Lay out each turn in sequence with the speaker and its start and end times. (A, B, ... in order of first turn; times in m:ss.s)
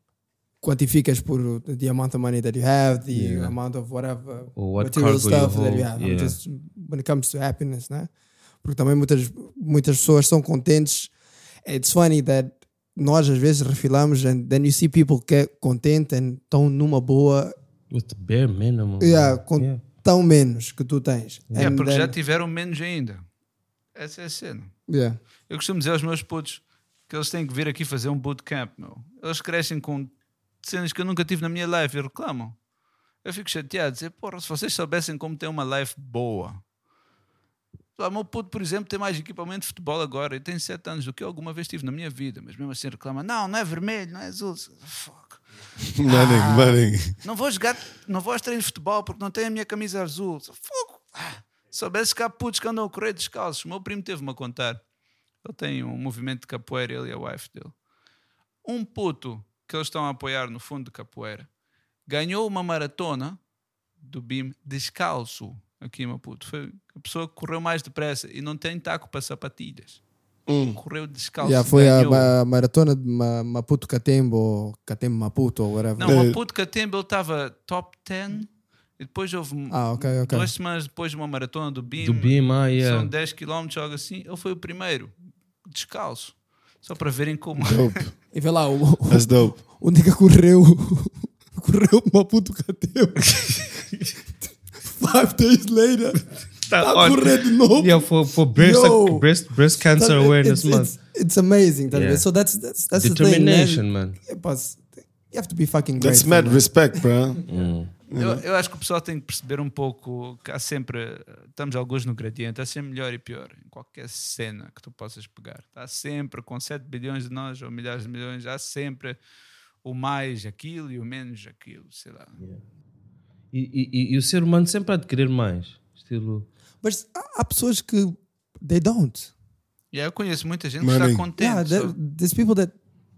0:00.6-0:08.1 A
0:03.1-0:03.6 B
0:04.5-0:06.4 B
0:08.6-0:11.1 A
0:11.6-0:17.5 A
0:17.9-0:19.8 B
0:19.0-0:22.1 A
0:21.5-0:21.8 B
0:21.6-0:23.2 C
0:23.9-0:24.7 C
0:24.9-0:25.2 A
0:25.5-0:30.1 C
0:30.6-0:32.6 C
0:33.2-0:36.6 C
0:38.0-0:45.4 C
0:45.9-0:47.2 D
0:46.1-0:54.8 C
0:55.4-0:57.8 C
0:58.6-1:01.5 C
1:02.0-1:03.4 C
1:04.0-1:10.0 C
1:10.5-1:10.8 D
1:10.8-1:12.3 C
1:11.4-1:16.1 A
1:16.0-1:25.1 C
1:16.0-1:16.4 D
1:19.7-1:20.5 A
1:22.0-1:23.1 B
1:25.6-1:28.0 C
1:27.6-1:28.1 D
1:28.3-1:33.8 A
1:29.1-1:29.6 D
1:34.8-1:36.2 A
1:36.6-1:41.0 B
1:36.8-1:39.3 A
1:39.9-1:46.7 A
1:41.9-1:42.2 B
1:42.9-1:44.2 B
1:46.0-1:47.4 D
1:47.5-1:48.0 B
1:48.1-1:48.4 D
1:48.2-1:59.2 C
1:59.8-2:02.4 C
2:03.5-2:06.5 B
2:06.8-2:09.3 A
2:09.9-2:11.9 C
2:10.8-2:11.3 D
2:11.4-2:12.7 A